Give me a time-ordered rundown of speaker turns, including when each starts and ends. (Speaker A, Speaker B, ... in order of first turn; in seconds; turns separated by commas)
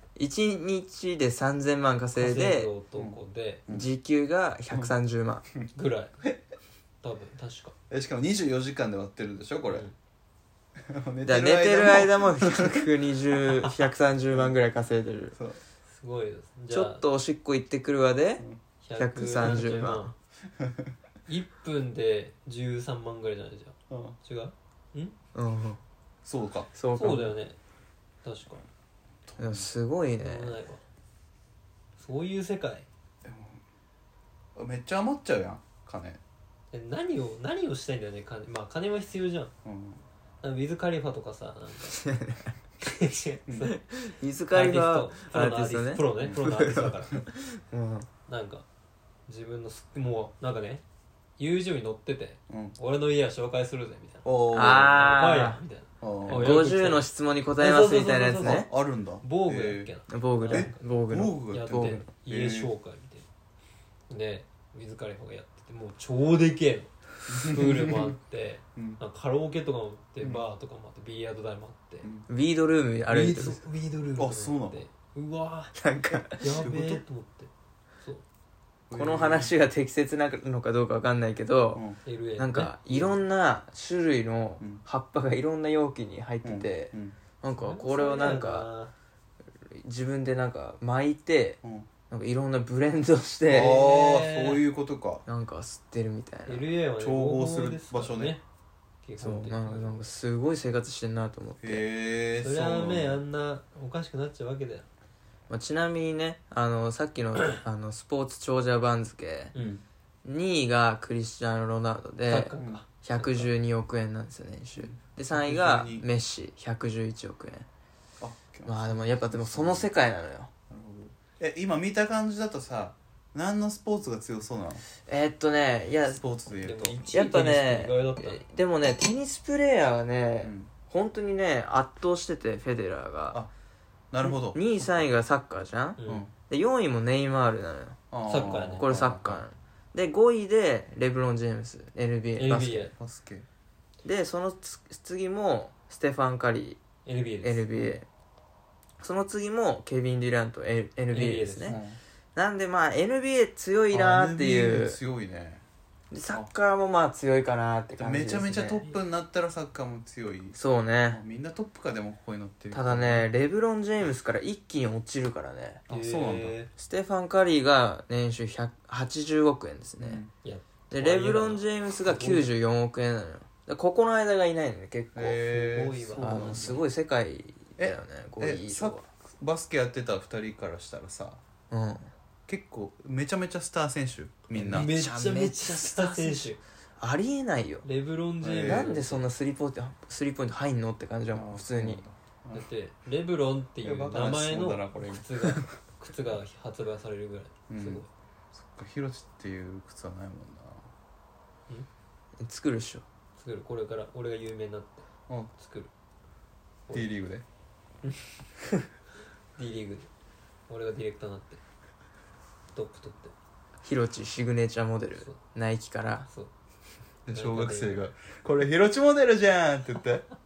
Speaker A: 0.2-2.7, Speaker B: 2.1-3.6, Speaker C: 3.0-3.9, Speaker A: 3.7-5.5, Speaker B: 5.8-6.2, Speaker B: 7.0-7.7, Speaker C: 7.9-9.9, Speaker B: 9.7-9.9, Speaker C: 10.9-12.9, Speaker A: 11.2-15.4, Speaker C: 14.3-14.6, Speaker B: 15.9-17.1, Speaker A: 16.7-18.4, Speaker B: 18.8-20.1, Speaker A: 19.0-20.1, Speaker B: 21.3-25.1, Speaker C: 23.9-24.2, Speaker A: 25.4-25.8, Speaker C: 26.2-26.7, Speaker A: 26.7-27.4, Speaker B: 26.9-27.6, Speaker B: 28.2-28.6, Speaker C: 29.3-29.7, Speaker A: 29.4-30.6, Speaker B: 30.2-30.8, Speaker B: 32.0-32.9, Speaker C: 33.2-33.6, Speaker C: 34.6-36.2, Speaker B: 36.7-39.5, Speaker C: 39.6-40.0, Speaker B: 40.4-42.0, Speaker A: 42.0-42.5, Speaker B: 42.8-43.7, Speaker A: 43.7-48.1, Speaker B: 44.5-47.2, Speaker B: 48.3-48.7, Speaker B: 49.3-50.8, Speaker B: 51.4-58.7, Speaker C: 52.5-52.8, Speaker C: 54.2-55.0, Speaker A: 54.5-55.6, Speaker C: 56.0-56.6, Speaker A: 56.3-58.7, Speaker C: 58.4-59.9, Speaker B: 59.2-60.8, Speaker A: 60.1-62.0, Speaker C: 60.5-62.7, Speaker B: 61.5-63.3, Speaker B: 64.1-72.1, Speaker C: 67.3-68.1, Speaker A: 72.3-73.6, Speaker C: 73.1-73.6, Speaker B: 73.2-75.8, Speaker C: 74.2-74.8, Speaker A: 75.7-76.7, Speaker B: 76.4-77.5, Speaker C: 76.4-77.0, Speaker C: 78.9-79.5, Speaker A: 78.9-81.8, Speaker B: 82.0-83.1, Speaker A: 82.4-88.7, Speaker C: 86.4-87.2, Speaker B: 87.6-88.9, Speaker A: 89.6-93.9, Speaker C: 93.5-95.2, Speaker B: 93.8-94.6, Speaker A: 95.3-96.7, Speaker B: 96.5-98.4, Speaker C: 97.0-98.4, Speaker B: 99.0-100.0, Speaker A: 99.2-101.8, Speaker C: 101.6-103.2, Speaker B: 102.4-104.9, Speaker A: 105.5-109.5, Speaker B: 109.5-109.8, Speaker C: 109.5-109.8, Speaker A: 110.2-117.7, Speaker B: 112.3-112.9, Speaker C: 114.8-116.1, Speaker C: 118.2-119.9, Speaker A: 118.7-120.5, Speaker C: 120.7-124.8, Speaker A: 125.1-126.2, Speaker C: 126.1-127.0, Speaker B: 126.6-128.4, Speaker A: 127.1-133.4, Speaker C: 130.4-130.7, Speaker C: 134.1-134.6, Speaker A: 134.2-138.0, Speaker B: 136.0-136.3, Speaker C: 136.1-136.3, Speaker C: 138.1-139.4, Speaker B: 138.3-138.9, Speaker A: 138.8-142.9, Speaker B: 142.4-142.9, Speaker C: 143.0-143.5, Speaker A: 144.0-146.8, Speaker B: 147.1-147.7, Speaker A: 147.4-148.1, Speaker A: 149.0-151.8, Speaker B: 151.1-151.8, Speaker C: 151.7-152.0, Speaker A: 152.3-155.0, Speaker C: 153.9-155.6, Speaker A: 156.1-158.8, Speaker C: 158.0-160.6, Speaker A: 160.6-161.2, Speaker C: 161.1-163.3, Speaker A: 162.7-165.8, Speaker C: 165.9-166.6, Speaker B: 165.9-166.7, Speaker A: 166.8-170.2, Speaker C: 170.0-170.3, Speaker B: 170.4-172.5, Speaker A: 170.9-175.4, Speaker C: 175.2-176.8, Speaker B: 175.5-176.8, Speaker A: 176.2-179.1, Speaker C: 177.8-181.4, Speaker A: 181.7-182.1, Speaker C: 182.5-184.9, Speaker A: 184.5-187.8, Speaker B: 184.7-186.6, Speaker B: 187.8-189.2, Speaker C: 188.4-188.9, Speaker A: 188.6-192.0, Speaker C: 191.3-192.7, Speaker B: 192.5-198.1, Speaker C: 193.8-195.7, Speaker C: 197.7-198.0, Speaker C: 198.5-200.8, Speaker A: 202.4-203.1, Speaker B: 203.4-205.1, Speaker B: 205.6-205.9, Speaker C: 206.9-207.4, Speaker B: 209.6-210.1, Speaker B: 210.7-211.6, Speaker B: 212.7-213.3, Speaker A: 213.8-216.3, Speaker C: 217.3-220.3, Speaker B: 217.3-218.1